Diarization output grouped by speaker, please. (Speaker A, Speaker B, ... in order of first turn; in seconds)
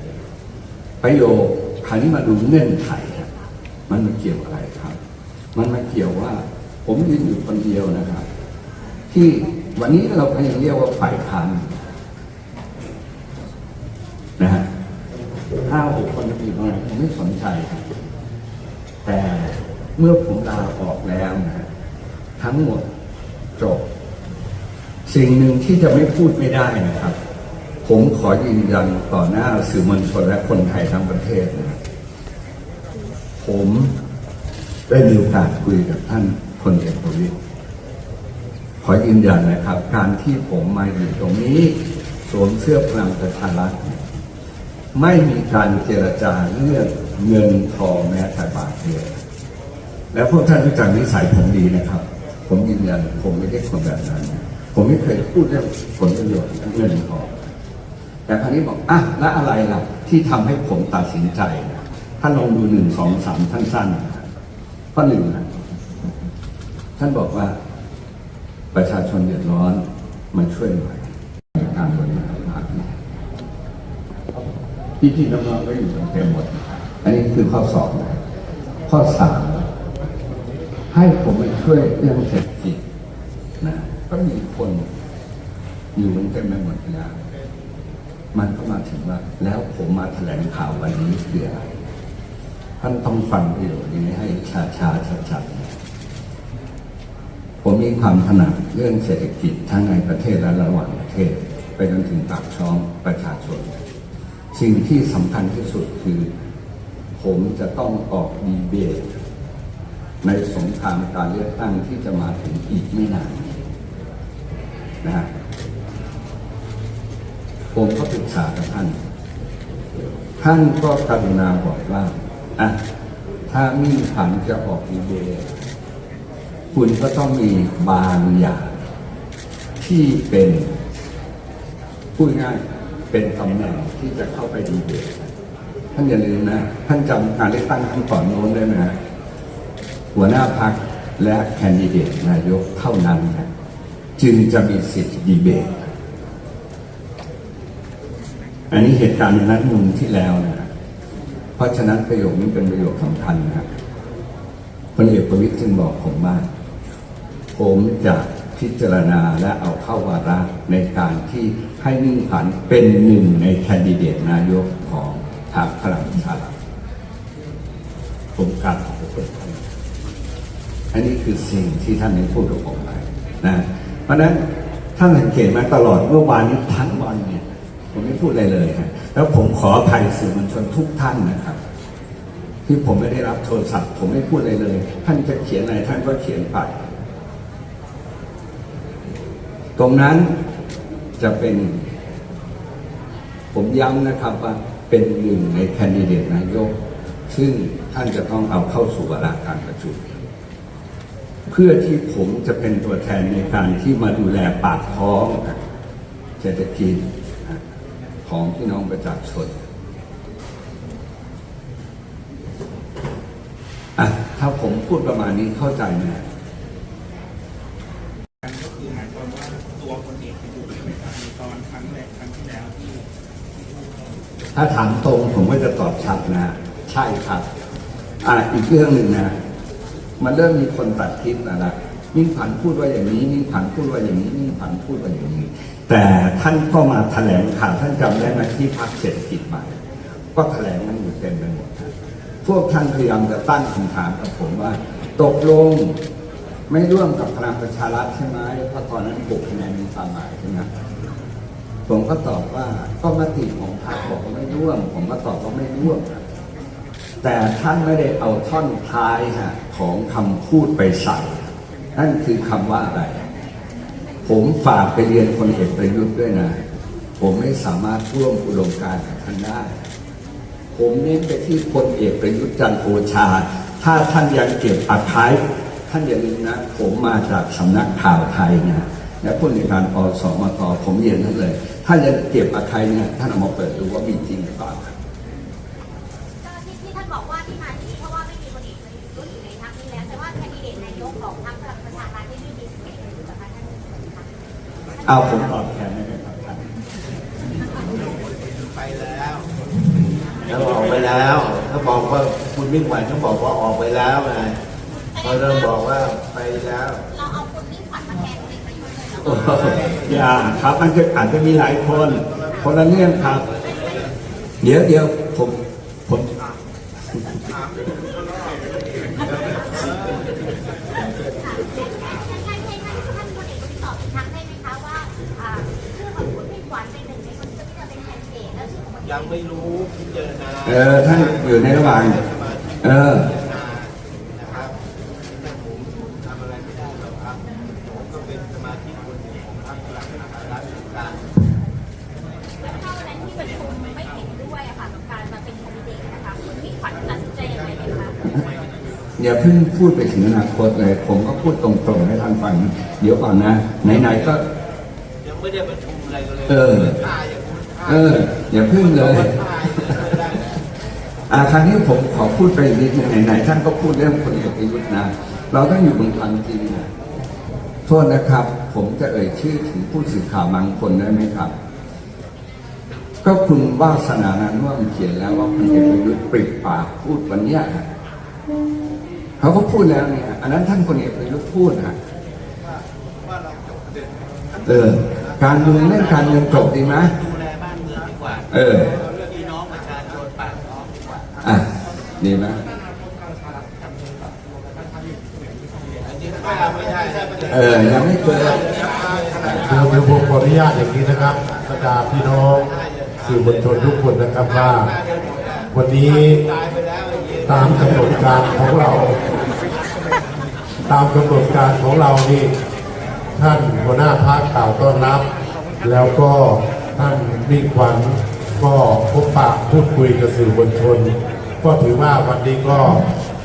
Speaker A: 1.0-3.3, 3.9-5.0, 5.5-8.3, 9.1-11.8, 14.4-14.7, 15.6-17.9, 19.1-21.7, 22.4-22.9, 23.6-23.8, 25.1-27.2, 27.8-31.8, 33.4-34.0, 34.9-37.4, 38.8-44.0, 45.0-49.2, 50.1-57.3, 58.3-64.3, 65.0-65.5, 67.0-67.6, 68.7-73.0, 75.0-78.2, 78.9-79.7, 80.9-82.8, 83.6-84.9, 86.0-87.2, 88.3-91.7, 92.8-95.8, 97.6-103.8, 104.5-106.3, 107.2-109.2, 110.2-113.7, 115.0-115.3, 117.7-119.0, 120.4-122.8, 123.5-125.5, 126.7-128.8, 129.8-130.8, 132.2-135.3, 135.9-138.9, 140.1-143.5, 144.2-145.9, 148.7-150.7, 151.6-153.7, 155.0-156.5, 157.6-166.5, 168.3-169.7, 170.9-174.4, 175.0-181.6, 182.7-186.9, 189.8-190.3, 191.2-191.9, 193.5-196.7, 197.3-200.2, 201.5-205.6, 206.4-207.7, 208.2-209.7, 214.0-216.2, 224.6-227.5, 228.2-229.3, 230.2-239.8, 240.3-241.9, 242.4-246.0, 246.7-250.7, 251.9-256.2, 257.2-263.3, 264.2-266.6, 267.2-269.8, 270.7-284.9, 295.0-296.7, 309.2-313.5, 314.6-316.4, 317.1-317.4, 330.6-332.2, 332.8-333.3, 349.2-354.4, 356.5-357.1, 357.8-359.4, 361.3-366.9, 367.9-371.5, 373.2-377.9, 379.4-382.0, 384.6-387.2, 388.5-389.0, 391.4-391.7, 392.2-392.6, 397.5-398.7, 399.4-399.7
Speaker B: 218.4-223.1
Speaker C: 286.4-294.3, 295.0-295.4, 305.1-305.9, 307.1-310.1, 313.6-314.1, 319.4-320.1, 321.2-329.4, 342.6-348.3
Speaker D: 297.9-299.5, 300.5-304.6, 305.2-307.1, 313.6-314.0, 317.4-320.3, 329.1-334.8, 335.4-341.4, 355.2-360.6, 383.3-391.3, 396.0-400.1, 402.9-403.8, 404.5-405.7, 406.3-408.7
Speaker E: 399.6-404.9, 405.7-406.4, 407.5-409.2, 410.9-412.5, 413.4-415.3, 415.8-423.1